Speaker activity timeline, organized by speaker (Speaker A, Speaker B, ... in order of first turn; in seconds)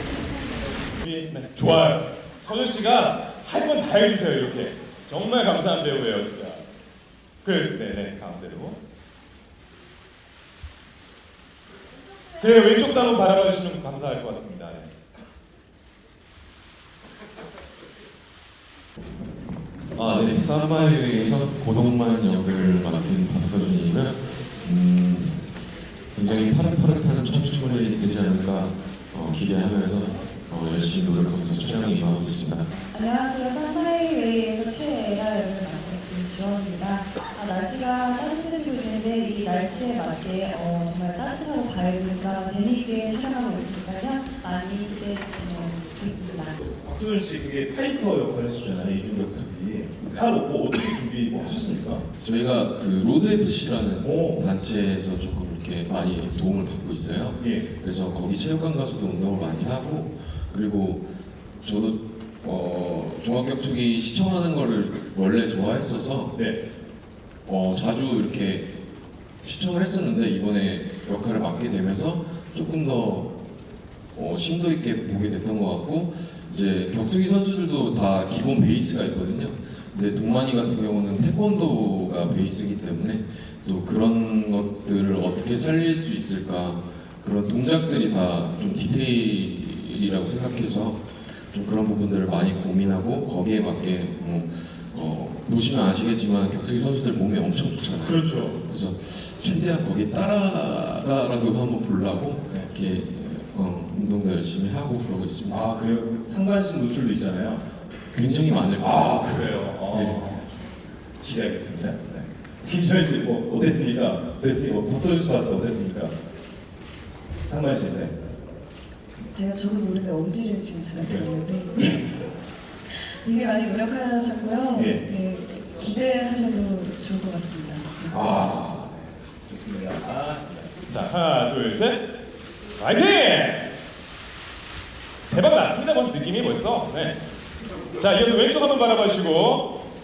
Speaker A: 1.0-6.6, 7.4-8.8, 12.4-14.9, 50.3-51.1, 98.1-98.5, 106.1-107.6, 109.2-110.0, 111.3-112.0, 112.7-116.1, 117.5-118.1, 130.9-132.0, 132.8-133.7, 135.3-137.2, 138.0-139.7
Speaker B: 19.9-25.5, 26.1-32.7, 52.1-66.4, 67.5-68.8, 69.4-73.4, 74.1-105.7, 108.1-109.3, 109.9-110.3
Speaker C: 32.9-46.7, 119.2-122.1, 122.9-128.1
Speaker D: 46.8-52.0, 54.0-54.4, 57.4-57.6, 105.5-107.4, 108.8-110.4, 111.2-115.9, 117.5-118.1, 124.7-125.1, 128.1-128.9, 129.5-130.4